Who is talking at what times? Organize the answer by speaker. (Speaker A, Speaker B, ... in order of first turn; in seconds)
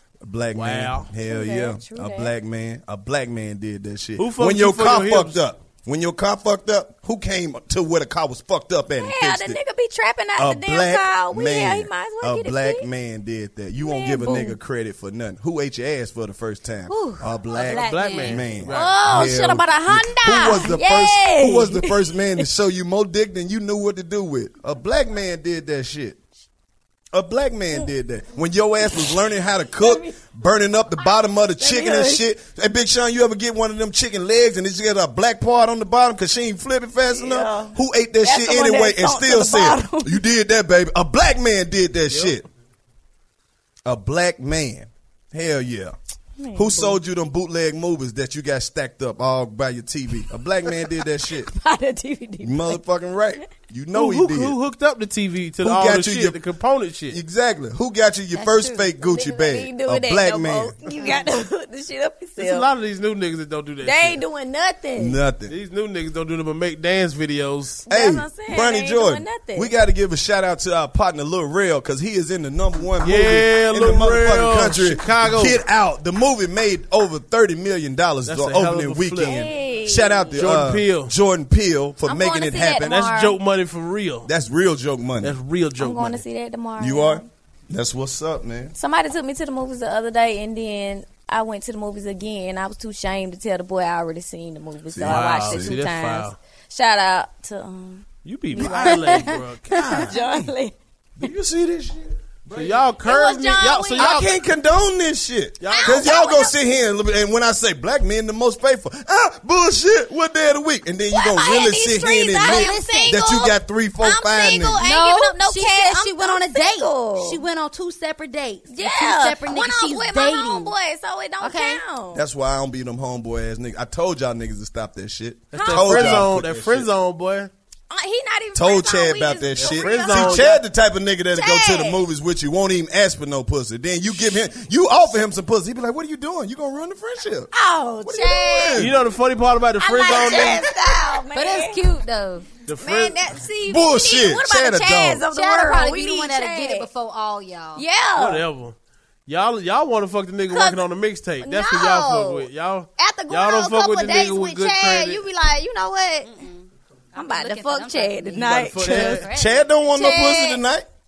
Speaker A: 0.2-9.6, 10.3-26.2, 27.1-42.4, 43.8-46.0, 46.5-51.5, 52.4-54.6, 55.6-56.4, 57.1-60.8, 65.0-65.5, 67.9-83.1, 84.2-85.4, 86.8-88.7, 94.9-95.7, 98.7-99.0, 99.9-100.5, 101.2-102.2, 104.0-114.8, 122.1-126.9, 128.5-137.5, 138.0-139.0, 143.6-145.2, 159.3-160.9
Speaker B: 0.6-1.1, 4.2-5.4, 17.7-19.0, 42.1-42.4, 53.9-57.2, 62.4-64.2, 65.5-67.8, 73.0-75.6, 78.3-79.4, 80.4-81.1, 82.8-84.3, 85.2-86.2, 95.0-96.3, 98.2-100.2, 102.5-104.3, 105.6-106.1, 125.5-127.5, 129.6-130.5, 138.8-140.6, 142.7-143.2, 148.2-148.8, 149.3-155.2, 158.4-159.3
Speaker C: 1.2-2.3, 9.0-12.9, 13.8-14.6, 17.6-18.0, 18.6-22.1, 29.8-30.2, 31.6-32.2, 37.1-40.1, 46.4-47.0, 51.5-52.8, 59.0-62.7, 63.8-65.2, 67.9-69.7, 79.2-80.5, 82.0-83.4, 85.8-87.2, 88.8-98.0, 98.6-100.7, 103.0-104.3, 105.7-106.5, 111.1-117.4, 118.7-122.2, 125.5-126.3, 127.9-130.6, 131.3-132.0, 137.5-138.9, 139.8-141.8, 142.8-146.9, 147.8-148.4, 150.5-150.8, 151.4-156.3, 157.1-159.2, 159.8-160.6
Speaker D: 16.9-18.4, 58.3-58.9, 112.4-113.2, 114.8-120.7, 121.4-121.8, 141.3-142.5, 145.3-147.8, 156.2-159.6